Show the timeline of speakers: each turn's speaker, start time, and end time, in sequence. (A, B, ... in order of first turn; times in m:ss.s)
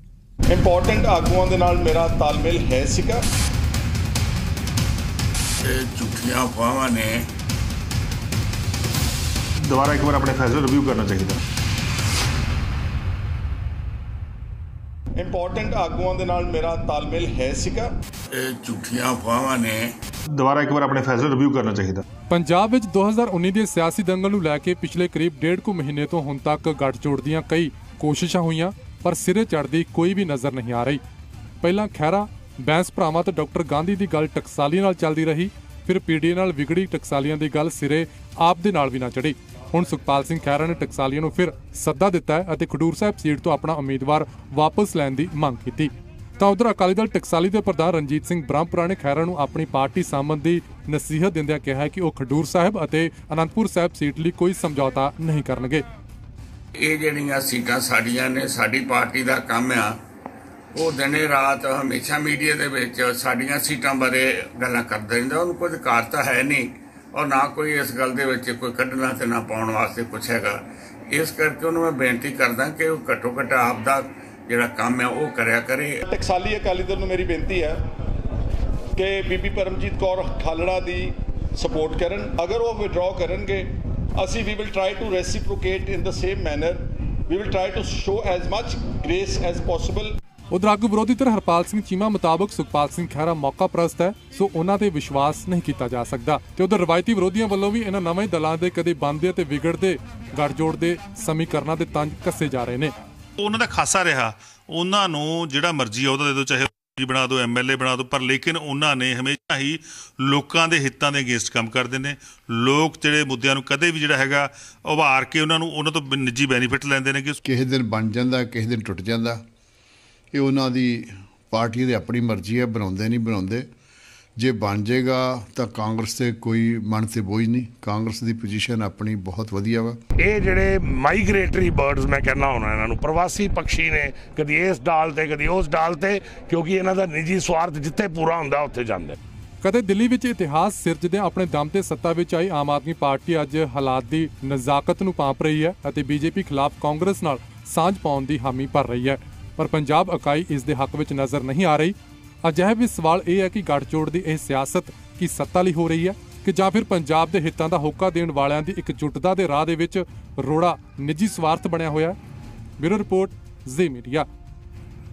0:00.5-0:03.2 A
0:05.6-0:07.3 B
0:09.7-0:11.4 C
0:15.2-0:18.0 A
0:18.3-0:19.9 B
0:20.4-0:22.0 C
0:22.3-0:31.0 D
0:31.6-0:55.8 D
0:56.8-1:00.0 B
1:00.8-1:16.0 B
1:16.1-1:17.8 A
1:19.0-1:30.2 A
1:30.5-1:42.9 D
1:43.4-1:57.4 C
1:57.4-1:59.4 E
2:00.3-2:03.7 E
2:04.4-2:10.0 E
2:10.2-2:19.2 F
2:19.6-2:42.2 D
2:42.8-2:44.3 D